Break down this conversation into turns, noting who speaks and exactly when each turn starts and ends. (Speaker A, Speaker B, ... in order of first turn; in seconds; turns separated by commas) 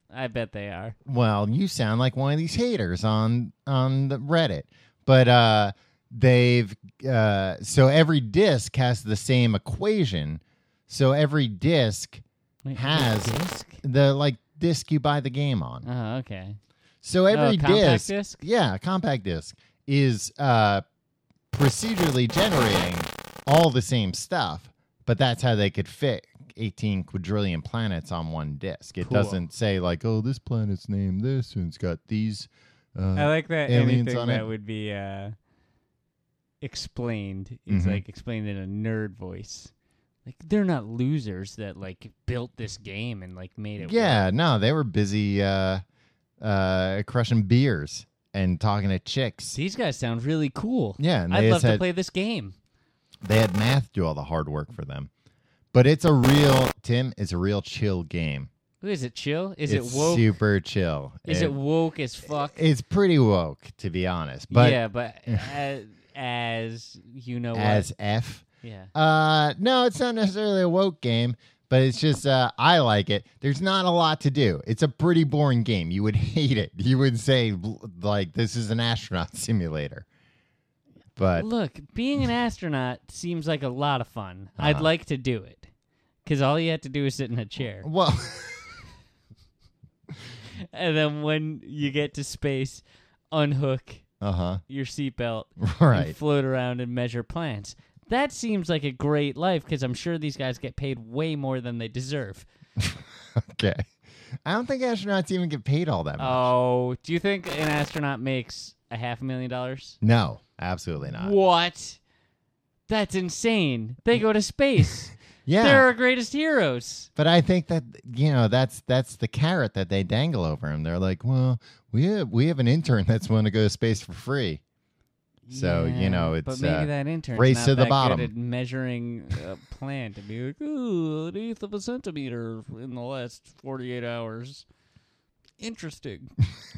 Speaker A: 0.1-1.0, Speaker B: 1.1-12.2, Speaker A: 12.7-13.8, Speaker B: 12.8-15.8, Speaker A: 15.8-16.6, Speaker B: 17.0-20.8, Speaker A: 17.3-18.4, Speaker B: 21.5-34.5, Speaker A: 29.0-29.4, Speaker A: 33.2-35.3, Speaker A: 36.6-39.7, Speaker B: 37.7-38.0, Speaker A: 40.3-44.3, Speaker B: 43.8-45.8, Speaker B: 46.4-49.6, Speaker A: 49.5-52.5, Speaker B: 51.0-51.9, Speaker B: 53.2-55.1, Speaker B: 55.7-58.5, Speaker A: 58.8-60.3, Speaker B: 59.7-61.6, Speaker A: 61.3-62.6, Speaker B: 62.3-65.5, Speaker A: 64.5-67.9, Speaker B: 67.5-80.0, Speaker A: 68.6-68.9, Speaker B: 81.2-81.5, Speaker A: 81.3-85.7, Speaker B: 84.6-84.9, Speaker A: 86.2-87.9, Speaker B: 87.8-88.8, Speaker A: 90.5-94.0, Speaker B: 94.2-94.6, Speaker A: 94.7-102.5, Speaker B: 95.6-96.2, Speaker B: 102.8-103.9, Speaker B: 104.5-106.5, Speaker A: 106.2-110.0, Speaker B: 110.0-111.3, Speaker A: 111.0-112.0, Speaker A: 112.9-117.1, Speaker B: 115.5-115.9, Speaker B: 117.2-124.6, Speaker A: 125.5-134.7, Speaker B: 125.5-128.3, Speaker A: 135.6-136.3